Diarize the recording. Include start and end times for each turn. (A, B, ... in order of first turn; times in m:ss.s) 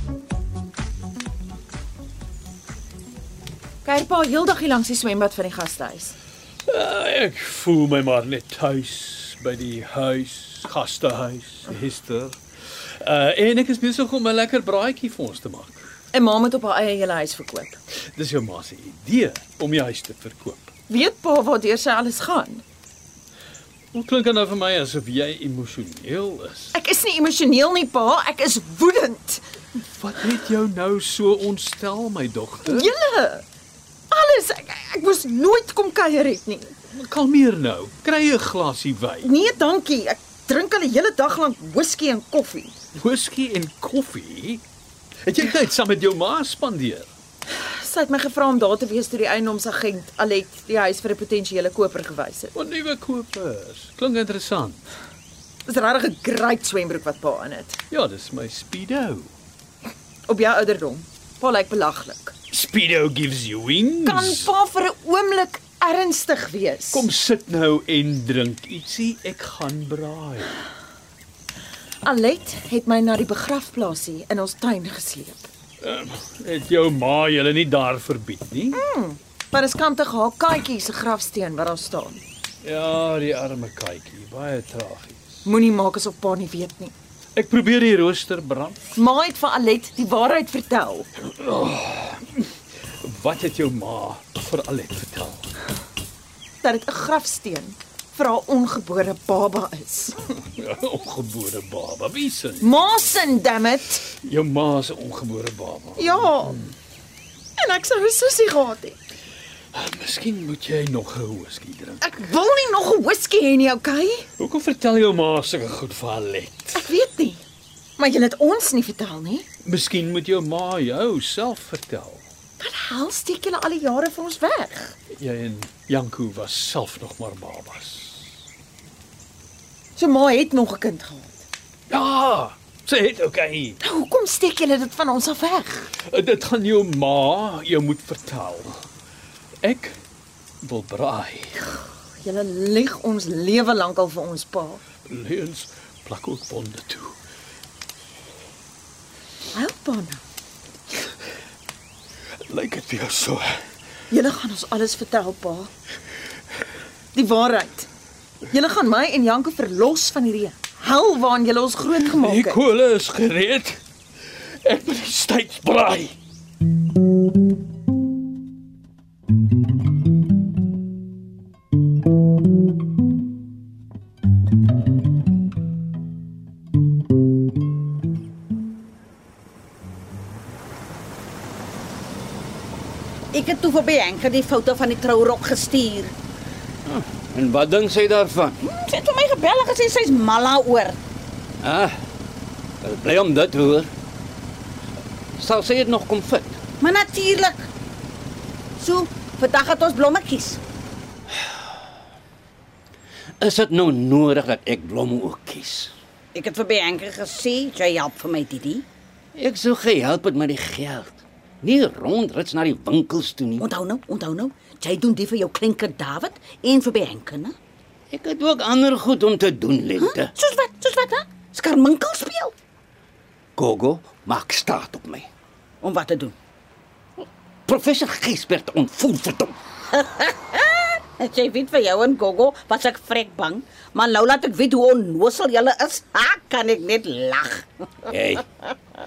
0:03.8-0:06.2 A
0:06.7-0:12.4 B
0:13.0-0:15.8 B
0:16.1-0:17.8 A
0:18.2-0:20.7 B
0:20.9-0:22.6 A
0:23.9-0:26.7 B
0:26.7-0:29.4 A
0:30.0-0:32.9 B
0:32.6-0:33.4 A
0:34.1-0:36.7 A
0:36.9-0:39.3 B
0:39.2-0:42.8 A
0:42.9-0:44.6 B
0:45.2-0:47.1 B
0:47.5-0:52.5 A
0:52.5-0:54.8 B
0:55.6-0:57.8 A
0:57.9-0:59.3 B
1:00.3-1:02.3 A
1:02.5-1:04.5 B
1:04.0-1:07.1 A
1:06.9-1:10.6 B
1:12.0-1:15.5 A
1:15.8-1:18.8 B
1:18.7-1:22.2 A
1:22.6-1:25.4 B
1:25.4-1:26.9 A
1:27.3-1:28.8 B
1:28.9-1:31.1 A
1:31.2-1:35.5 B
1:36.6-1:40.1 A
1:40.3-1:42.7 B
1:42.6-1:44.0 A
1:44.1-1:46.7 B
1:46.0-1:46.6 A
1:47.6-1:49.0 A
1:49.7-1:52.0 B
1:52.0-1:54.3 A
1:54.4-1:56.9 B
1:56.7-1:57.4 A
1:58.0-1:59.5 A
1:59.6-2:02.2 B
2:02.6-2:05.0 A
2:05.1-2:08.3 B
2:09.9-2:11.4 A
2:11.9-2:13.8 B
2:13.8-2:15.9 A
2:16.1-2:18.8 B
2:19.6-2:20.0 B
2:20.6-2:21.7 B
2:22.2-2:24.8 A
2:25.0-2:27.2 B
2:29.5-2:30.2 A
2:32.5-2:33.4 B
2:34.1-2:35.7 A
2:37.1-2:37.9 A
2:38.5-2:42.6 A
2:42.0-2:43.8 B
2:44.6-2:46.1 B
3:03.3-3:06.1 C
3:06.8-3:08.6 D
3:08.6-3:11.0 C
3:11.6-3:11.9 D
3:12.8-3:13.9 D
3:15.4-3:16.6 D
3:16.8-3:17.7 C
3:18.8-3:20.6 C
3:23.4-3:25.9 D
3:26.3-3:28.8 C
3:29.3-3:33.7 D
3:33.6-3:37.6 C
3:38.1-3:40.3 D
3:40.0-3:42.5 C
3:43.6-3:45.3 D
3:45.8-3:46.4 C
3:47.6-3:49.6 D
3:49.9-3:57.7 C
3:58.1-3:58.4 D